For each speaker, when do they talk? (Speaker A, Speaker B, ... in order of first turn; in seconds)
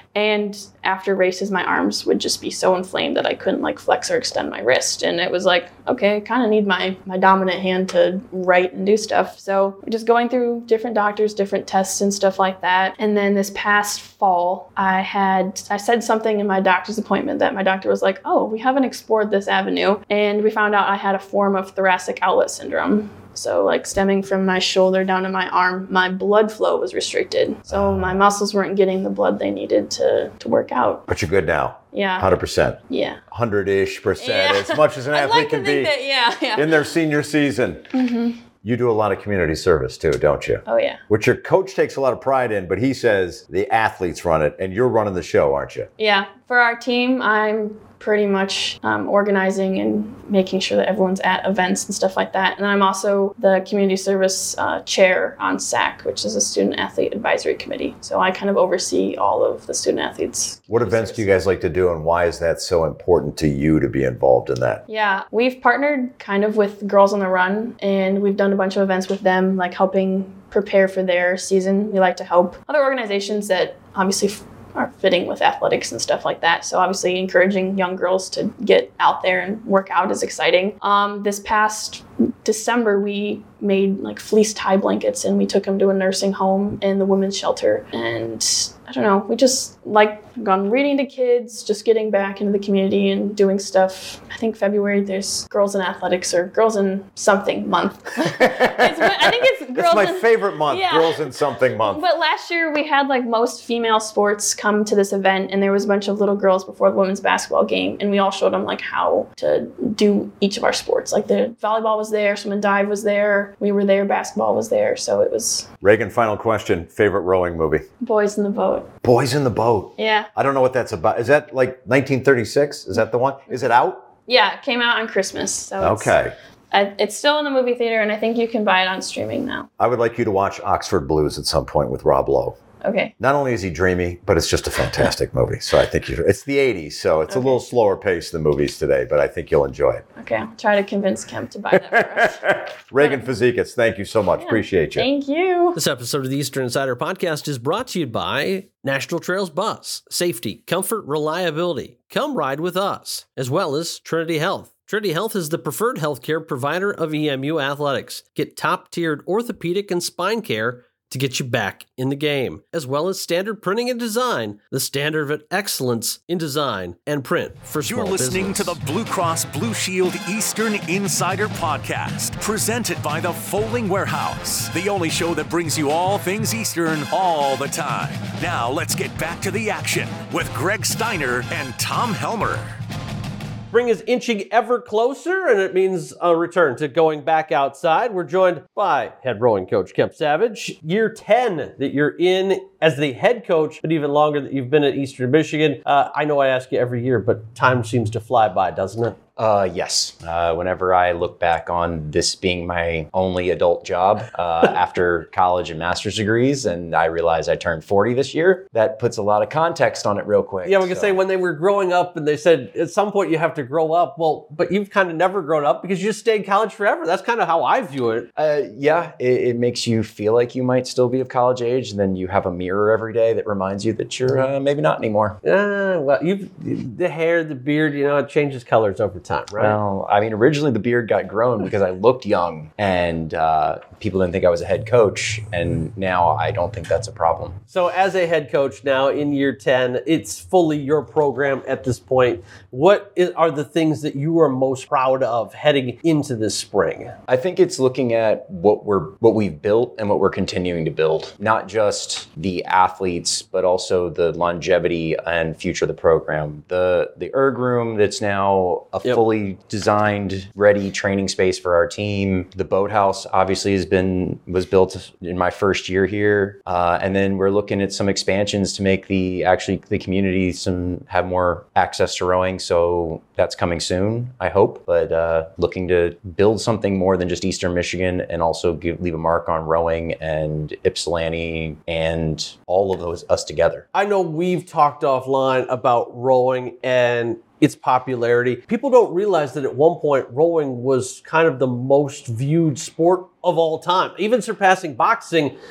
Speaker A: 0.1-31.1, 31.9-32.3, 32.9-33.2, 34.2-36.9, 37.9-38.4, 40.6-41.0, 46.0-61.3, 64.9-115.7, 118.0-118.9, 120.0-120.3, 124.3-126.2, 126.7-129.7, 132.8-133.1, 137.3-137.6, 140.2-143.3, 144.4-145.8
Speaker B: 27.7-28.2, 31.1-35.9, 36.5-37.9, 38.6-45.9, 60.7-64.8, 98.2-102.0, 115.8-117.8, 119.0-124.0, 125.8-126.3, 129.8-132.6, 133.2-140.0, 141.7-145.1
Speaker C: 145.8-168.8, 183.7-199.2, 210.6-218.3, 225.4-229.8, 237.7-247.1, 283.9-295.5
Speaker D: 167.8-182.7
Speaker E: 199.4-211.2, 218.4-225.4, 229.6-237.6, 247.3-283.9